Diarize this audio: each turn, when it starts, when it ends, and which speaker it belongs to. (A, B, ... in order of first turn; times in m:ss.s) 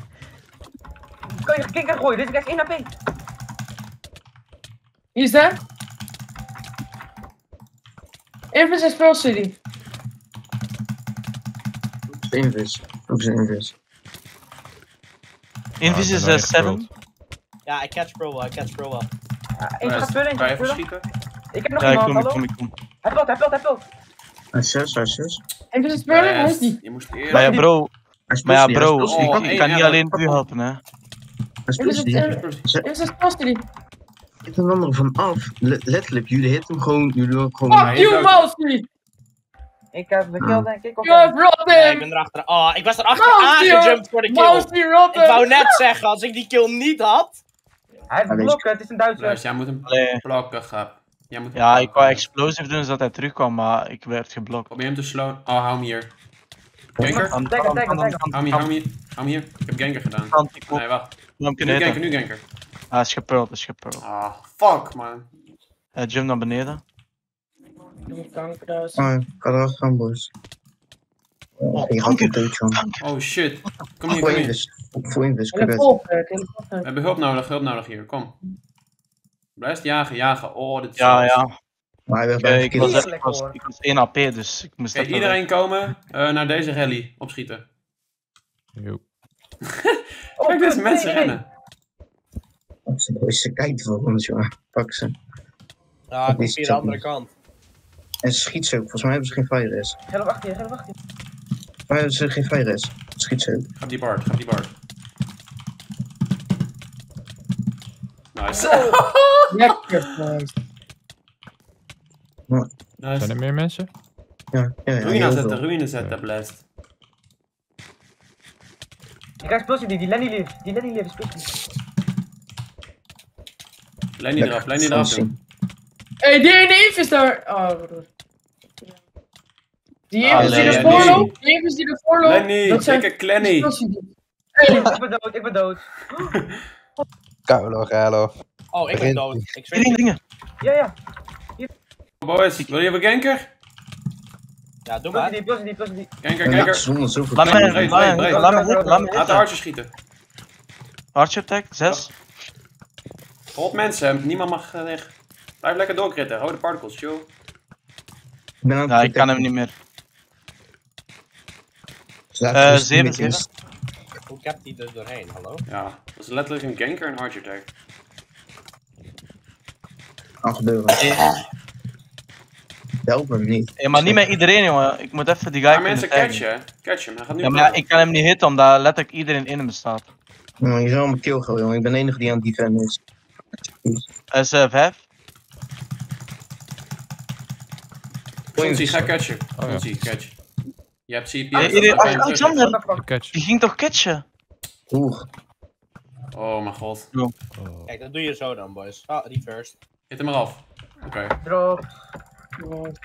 0:01.4-0:02.9 A
0:05.2-0:05.6 B
0:08.5-0:09.6 B
0:12.1-0:13.7 C
0:15.8-0:16.9 D
0:15.8-0:16.9 E
0:17.7-0:19.1 F
0:19.6-0:20.8 A
0:19.8-0:21.1 G
0:21.5-0:22.4 A
0:21.8-0:22.7 D
0:23.0-0:23.8 A
0:24.5-0:25.4 C
0:25.7-0:26.8 B
0:26.1-0:27.6 G
0:27.3-0:27.7 A
0:27.3-0:27.9 D
0:28.3-0:29.4 C
0:28.4-0:30.8 D
0:29.1-0:30.3 G
0:31.7-0:32.9 C
0:31.8-0:33.6 B
0:32.3-0:32.6 G
0:34.5-0:38.1 C
0:37.7-0:38.9 B
0:37.8-0:38.5 G
0:39.9-0:41.4 A
0:40.4-0:40.7 C
0:41.0-0:42.1 B
0:41.7-0:47.4 F
0:43.2-0:45.8 B
0:48.1-0:49.4 A
0:48.3-0:48.7 C
0:49.2-0:52.2 G
0:49.9-0:50.2 D
0:51.6-0:54.7 D
0:54.7-0:56.2 G
0:57.0-0:57.4 G
0:57.0-0:58.2 A
0:57.3-0:58.7 D
0:58.3-1:02.4 G
1:00.3-1:00.8 D
1:01.4-1:02.0 D
1:02.9-1:04.0 D
1:04.0-1:05.3 G
1:06.0-1:06.8 D
1:08.1-1:09.1 B
1:09.0-1:10.3 C
1:11.6-1:12.8 C
1:11.8-1:13.0 D
1:13.0-1:14.6 G
1:14.1-1:15.9 C
1:15.5-1:16.9 B
1:16.8-1:18.4 G
1:19.6-1:21.4 G
1:21.0-1:21.5 D
1:22.1-1:23.1 C
1:22.4-1:25.4 D
1:22.8-1:23.6 A
1:24.9-1:27.6 G
1:28.8-1:29.0 E
1:29.8-1:31.5 G
1:30.4-1:31.4 A
1:32.9-1:35.2 C
1:36.1-1:37.3 F
1:36.3-1:37.0 C
1:38.2-1:40.0 C
1:40.1-1:40.9 A
1:41.9-1:43.7 C
1:43.8-1:44.7 G
1:48.3-1:49.5 G
1:49.5-1:50.5 B
1:53.0-1:53.4 G
1:53.2-1:53.9 E
1:54.5-1:55.6 C
1:55.0-1:56.6 G
1:56.0-1:56.3 E
1:59.4-2:01.5 A
2:04.2-2:05.3 G
2:04.4-2:05.4 C
2:06.2-2:08.1 B
2:10.1-2:14.9 B
2:10.4-2:11.3 G
2:10.4-2:11.3 C
2:12.2-2:13.7 G
2:14.9-2:16.3 A
2:17.5-2:18.2 C
2:18.7-2:20.0 F
2:19.8-2:20.2 D
2:20.6-2:20.9 A
2:22.2-2:23.5 G
2:24.9-2:25.4 F
2:25.1-2:26.1 A
2:26.2-2:26.9 G
2:26.4-2:28.1 C
2:27.4-2:29.5 D
2:27.4-2:29.9 G
2:28.1-2:29.1 A
2:31.2-2:32.1 D
2:33.5-2:37.3 G
2:38.6-2:39.5 C
2:38.9-2:39.7 D
2:42.3-2:43.5 C
2:42.5-2:43.4 D
2:44.3-2:45.6 F
2:45.7-2:47.7 G
2:50.4-2:51.1 C
2:51.0-2:51.2 D
2:53.1-2:54.3 C
2:53.8-2:56.4 D
2:55.7-2:57.8 G
2:57.4-3:00.1 D
3:00.6-3:03.0 C
3:04.3-3:05.0 D
3:08.5-3:10.4 G
3:08.6-3:09.0 C
3:08.9-3:10.3 E
3:11.1-3:12.6 G
3:11.6-3:14.2 D
3:11.9-3:13.1 A
3:12.9-3:13.4 E
3:14.9-3:15.2 C
3:16.3-3:17.1 G
3:17.6-3:17.9 E
3:17.9-3:19.8 F
3:20.1-3:21.4 G
3:21.4-3:21.9 A
3:22.6-3:23.0 B